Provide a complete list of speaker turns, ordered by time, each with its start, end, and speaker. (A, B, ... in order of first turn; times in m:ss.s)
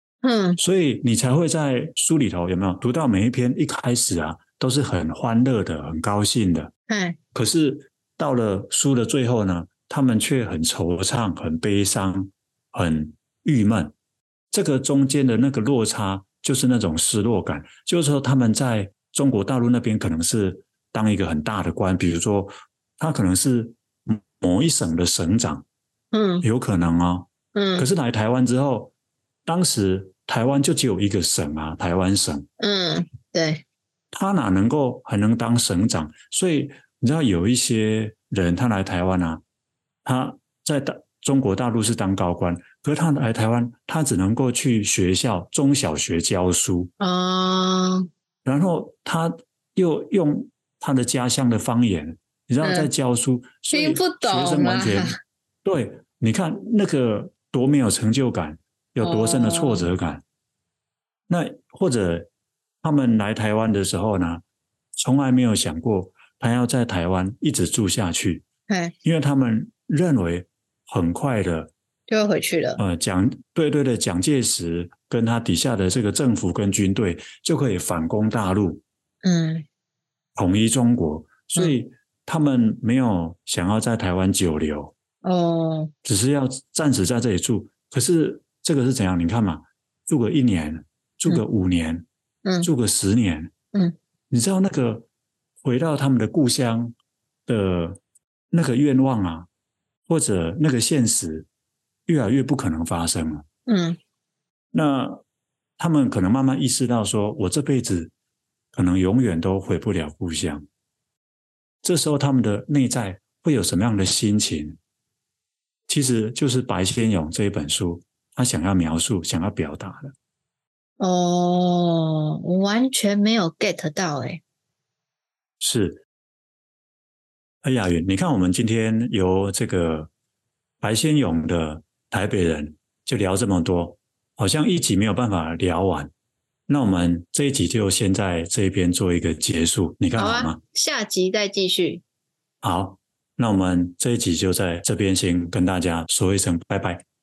0:00.2-0:00.6 A
0:00.6-0:06.7 B
0:06.9-0:07.2 A
0:07.3-0:13.9 B
0:14.5-0:25.6 B
0:26.1-0:26.4 A
0:26.4-0:28.9 B
0:27.5-0:27.9 A
0:29.4-0:32.5 B
0:32.6-0:33.6 A
0:34.1-0:39.4 B
0:40.0-0:46.9 B
0:47.0-0:48.1 A
0:48.4-1:00.2 B
0:52.6-0:52.9 A
0:53.7-0:55.2 A
0:59.0-0:59.9 A
1:01.3-1:02.3 B
1:02.8-1:04.4 B
1:05.0-1:08.4 B
1:08.7-1:08.9 A
1:09.0-1:11.7 B
1:12.1-1:12.8 A
1:12.8-1:18.8 B
1:19.2-1:19.6 A
1:20.4-1:24.9 B
1:25.2-1:25.9 A
1:26.0-1:32.0 B
1:32.4-1:32.7 A
1:32.6-1:33.5 B
1:34.3-1:35.1 B
1:35.6-1:36.9 B
1:37.4-1:38.0 B
1:38.5-1:39.5 B
1:40.1-1:41.5 B
1:42.1-1:43.4 B
1:43.7-1:44.0 A
1:44.7-1:45.2 B
1:45.8-1:48.1 B
1:48.7-1:50.6 B
1:51.8-1:54.8 B
1:55.9-2:00.1 B
2:01.0-2:04.4 A
2:05.6-2:06.0 B
2:07.6-2:10.1 B
2:10.8-2:16.1 B
2:16.7-2:20.6 B
2:20.2-2:22.0 A
2:22.6-2:27.0 B